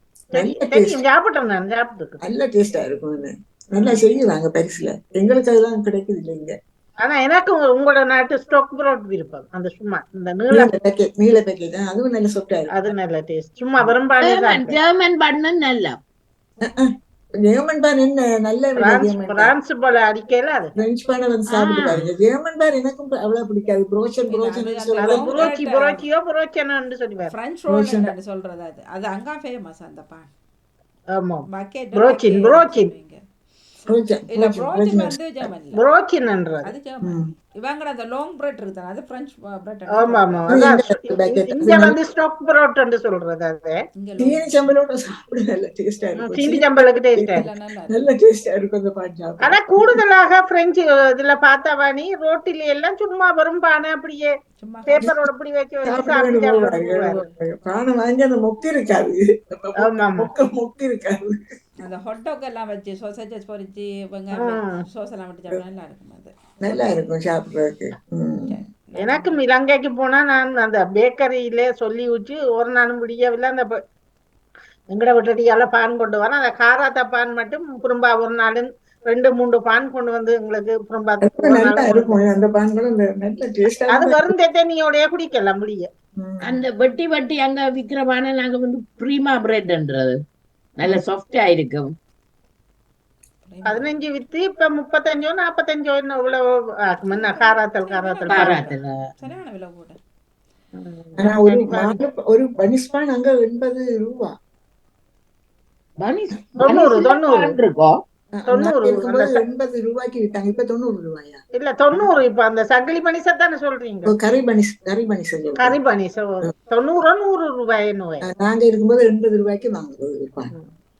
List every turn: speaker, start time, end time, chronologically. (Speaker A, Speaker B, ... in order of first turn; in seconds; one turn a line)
Speaker A: 0.3-2.2
Speaker B: 0.3-1.0
Speaker B: 2.2-6.5
Speaker A: 7.0-10.7
Speaker B: 10.5-12.8
Speaker A: 12.7-14.8
Speaker C: 14.2-16.0
Speaker B: 16.6-16.9
Speaker B: 17.4-19.5
Speaker A: 18.8-20.7
Speaker B: 20.8-25.5
Speaker C: 21.5-22.1
Speaker D: 24.3-26.0
Speaker A: 25.0-27.3
Speaker D: 27.3-30.3
Speaker B: 27.7-28.1
Speaker A: 31.1-32.9
Speaker D: 31.5-33.2
Speaker B: 33.9-35.5
Speaker D: 34.3-35.8
Speaker A: 35.7-36.7
Speaker D: 36.6-40.5
Speaker B: 37.0-37.3
Speaker A: 39.9-43.8
Speaker B: 40.5-42.0
Speaker D: 44.0-44.5
Speaker B: 44.2-50.0
Speaker A: 46.2-47.4
Speaker D: 47.3-48.1
Speaker A: 49.4-54.3
Speaker D: 54.6-55.1
Speaker A: 54.9-57.3
Speaker B: 55.9-61.4
Speaker A: 59.8-60.3
Speaker D: 61.8-66.9
Speaker A: 64.3-64.8
Speaker B: 66.6-68.6
Speaker D: 68.5-69.4
Speaker A: 69.0-73.8
Speaker A: 74.9-82.2
Speaker B: 81.2-84.3
Speaker A: 83.9-85.9
Speaker B: 86.2-86.6
Speaker C: 86.4-90.1
Speaker C: 90.8-91.9
Speaker D: 93.5-94.0
Speaker A: 93.7-98.7
Speaker D: 97.1-100.0
Speaker C: 98.3-99.0
Speaker A: 100.8-102.0
Speaker B: 101.2-104.3
Speaker C: 106.0-108.0
Speaker A: 106.6-107.6
Speaker B: 108.3-111.4
Speaker A: 108.5-109.4
Speaker A: 111.6-114.2
Speaker B: 114.0-115.8
Speaker A: 115.6-118.3
Speaker B: 118.2-120.5